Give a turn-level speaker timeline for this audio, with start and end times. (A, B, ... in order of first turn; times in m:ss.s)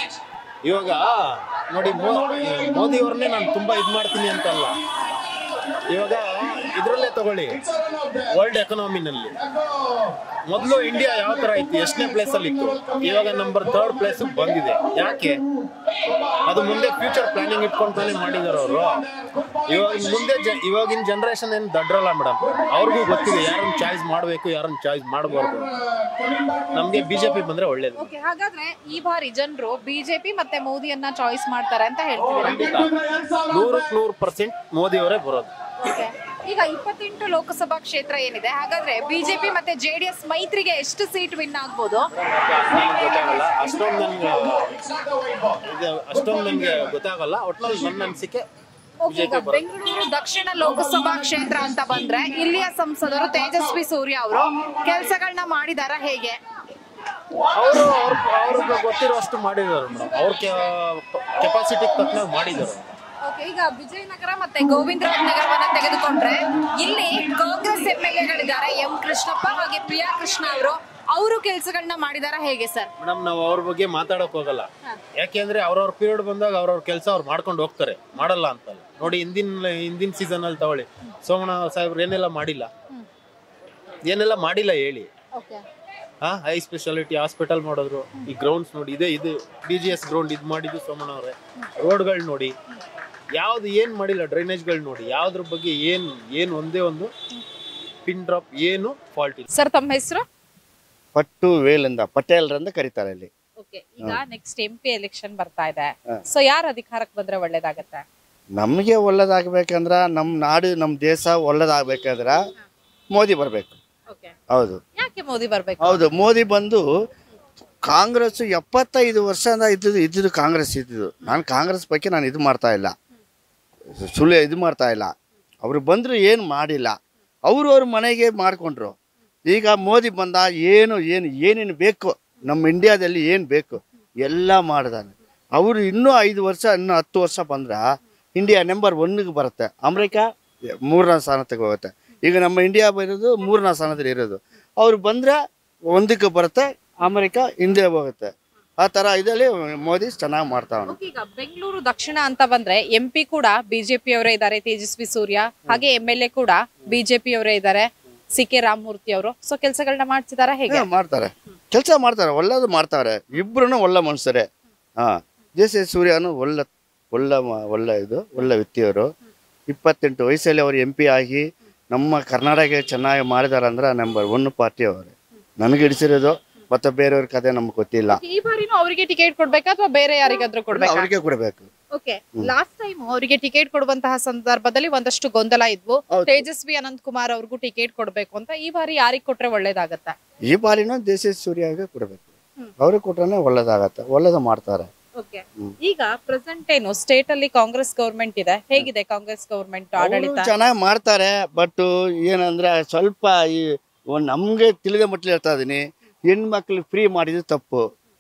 0:00.6-0:04.8 A
0:05.9-0:07.6 A
0:08.2-0:09.4 A
0:10.5-0:15.4 A
0:16.1-0:28.1 A
0:28.0-0:32.8 B
0:32.4-0:35.5 A
0:35.8-0:42.1 B
0:42.1-0:44.8 A
0:45.5-0:48.4 A
0:49.0-0:56.4 B
0:49.1-0:49.7 A
0:57.5-1:02.9 A
1:03.2-1:12.9 B
1:13.0-1:22.7 A
1:24.1-1:25.1 A
1:25.3-1:25.6 B
1:26.2-1:32.6 A
1:33.4-1:37.1 A
1:38.1-1:39.5 A
1:39.5-1:40.2 B
1:41.2-1:43.3 C
1:43.6-1:48.0 B
1:48.6-1:52.4 C
1:53.2-1:53.8 C
1:54.1-1:54.3 B
1:54.5-1:54.8 C
1:55.0-1:56.0 B
1:55.8-1:56.8 C
1:57.9-2:02.9 C
2:04.0-2:05.1 C
2:05.6-2:07.0 C
2:07.5-2:09.0 C
2:09.5-2:17.8 C
2:18.4-2:20.2 C
2:20.9-2:25.4 C
2:25.9-2:28.3 C
2:28.8-2:31.0 C
2:30.9-2:40.9 B
2:40.7-2:44.5 C
2:45.0-2:49.1 C
2:49.7-2:58.2 C
2:58.1-3:01.1 B
3:00.7-3:01.7 C
3:01.9-3:10.2 B
3:06.1-3:06.4 C
3:10.5-3:12.3 C
3:12.8-3:14.9 C
3:15.2-3:20.5 B
3:20.0-3:27.8 C